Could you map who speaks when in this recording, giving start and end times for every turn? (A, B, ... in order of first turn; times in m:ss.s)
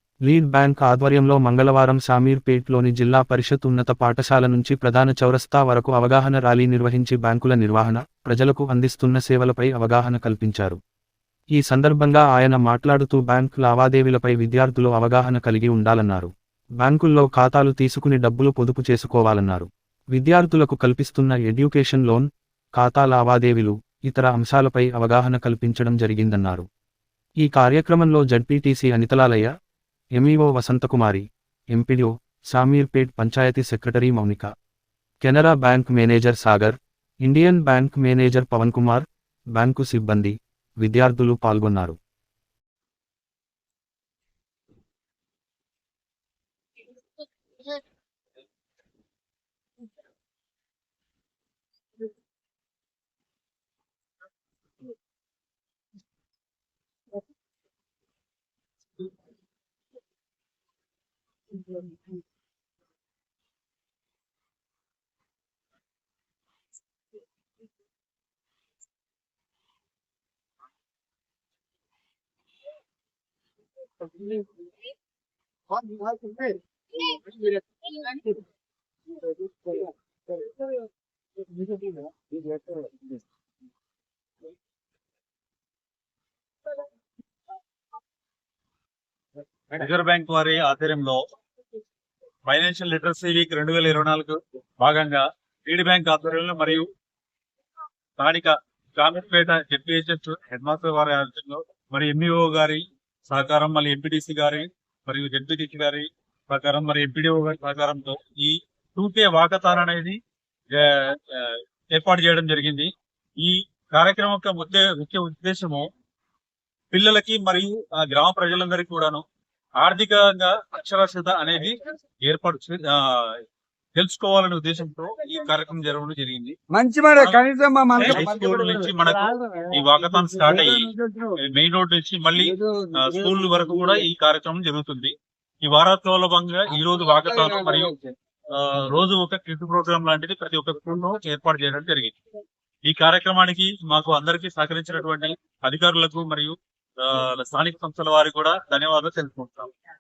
0:00.3-0:10.8 A
0:11.6-0:22.3 A
0:22.8-0:26.7 A
0:27.4-0:29.5 A
0:30.2-0:34.5 A
0:35.2-0:42.0 A
1:15.8-1:16.6 B
1:22.5-1:22.9 B
1:29.7-1:31.2 C
1:32.5-1:36.9 C
1:38.2-1:55.9 C
1:56.9-1:59.2 C
1:59.8-2:03.4 C
2:04.0-2:06.6 C
2:06.7-2:08.6 B
2:08.0-2:17.9 C
2:09.3-2:09.7 B
2:10.4-2:11.4 B
2:12.4-2:14.1 B
2:16.8-2:18.1 B
2:18.5-2:22.2 C
2:22.8-2:29.7 C